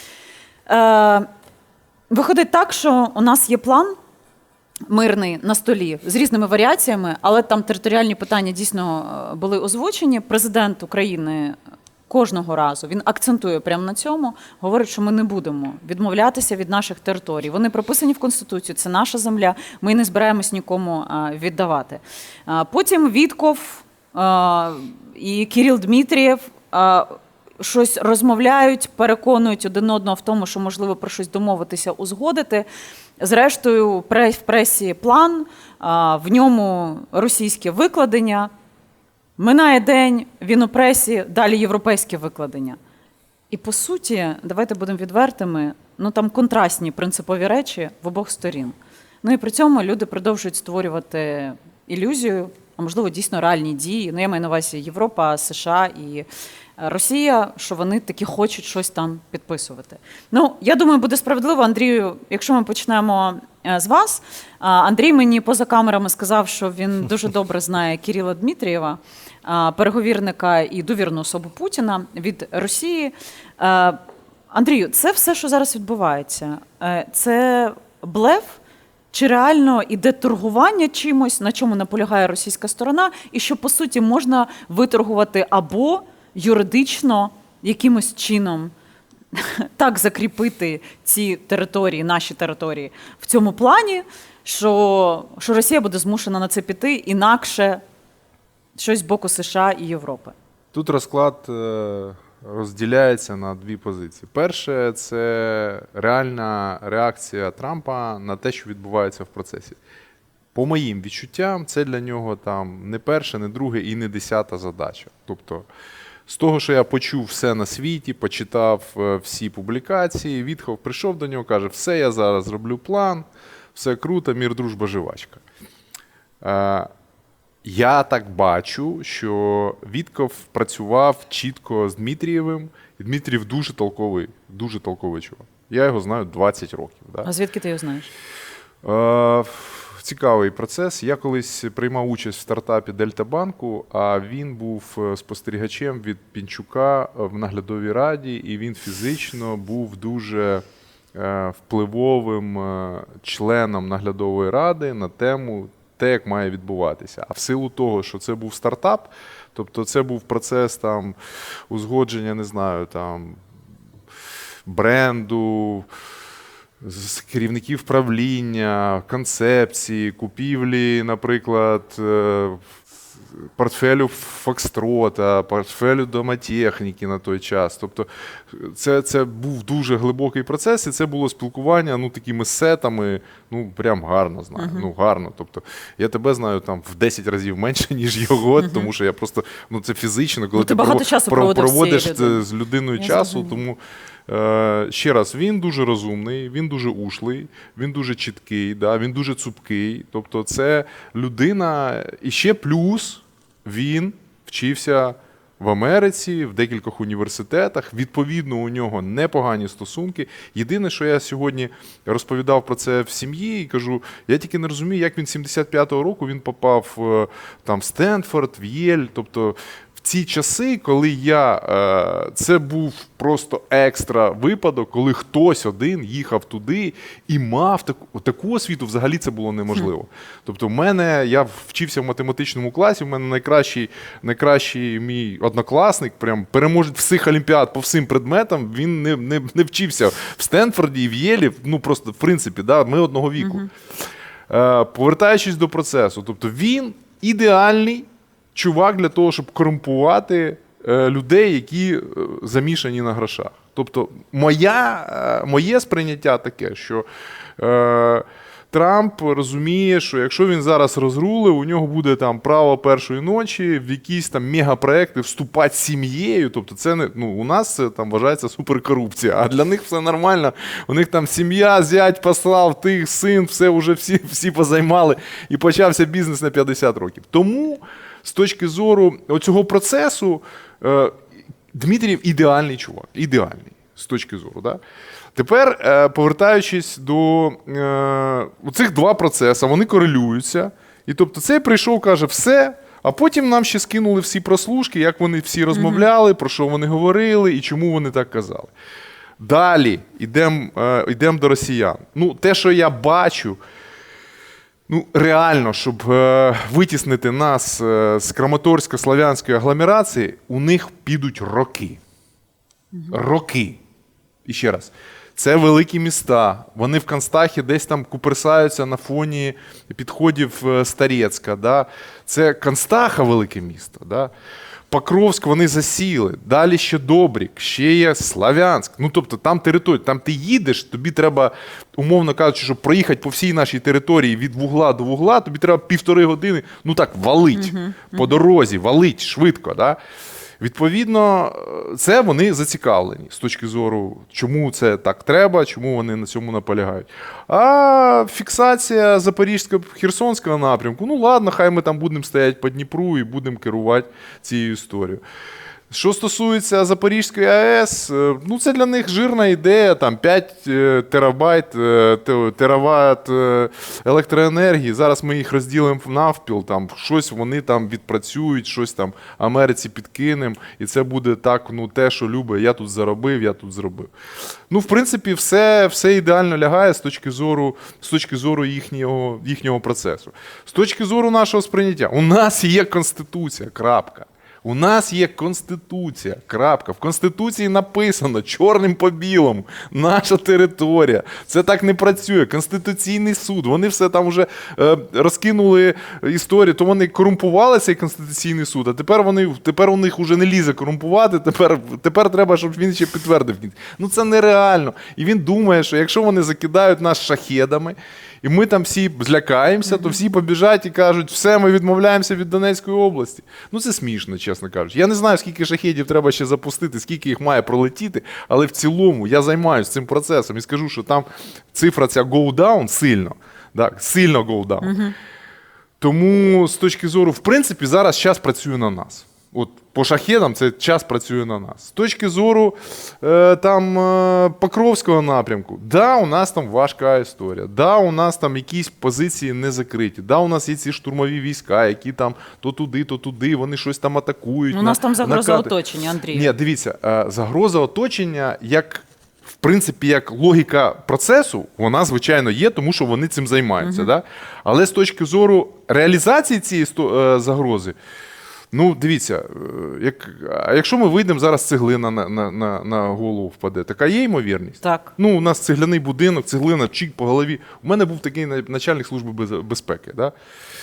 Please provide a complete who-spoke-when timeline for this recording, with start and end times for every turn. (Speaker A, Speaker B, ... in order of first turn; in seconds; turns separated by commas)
Speaker A: 0.7-1.3, Speaker A: 2.1-4.0, Speaker A: 4.9-11.6, Speaker A: 12.1-32.7, Speaker A: 33.2-38.5, Speaker A: 39.4-42.8, Speaker A: 43.5-56.3, Speaker A: 56.8-78.6, Speaker A: 79.1-88.7, Speaker A: 89.3-97.8, Speaker A: 98.8-100.3, Speaker B: 100.7-109.8, Speaker B: 110.5-115.7, Speaker B: 116.3-125.4, Speaker B: 126.4-126.9, Speaker B: 127.6-137.3, Speaker A: 137.2-138.1, Speaker B: 138.8-150.6, Speaker B: 151.1-161.2, Speaker B: 161.7-163.4, Speaker B: 164.7-165.9, Speaker B: 166.8-172.6, Speaker B: 173.4-243.7, Speaker A: 184.6-184.9, Speaker A: 188.6-188.9, Speaker A: 190.6-192.4, Speaker A: 193.0-193.6, Speaker A: 243.4-243.7, Speaker B: 244.5-257.1, Speaker B: 257.6-281.2, Speaker B: 281.7-284.8, Speaker B: 285.4-298.7, Speaker A: 295.7-296.0, Speaker B: 299.4-303.6, Speaker B: 304.9-312.0, Speaker B: 313.1-313.8, Speaker B: 314.5-324.3, Speaker B: 324.9-340.0, Speaker A: 337.6-338.4, Speaker B: 340.6-355.2, Speaker B: 355.9-374.1, Speaker B: 374.7-424.9, Speaker A: 409.9-410.2, Speaker A: 424.8-425.1, Speaker B: 426.0-445.7, Speaker A: 444.7-446.5, Speaker B: 446.3-449.1, Speaker B: 449.6-457.9, Speaker A: 453.8-454.1, Speaker B: 458.7-470.3, Speaker A: 464.8-465.1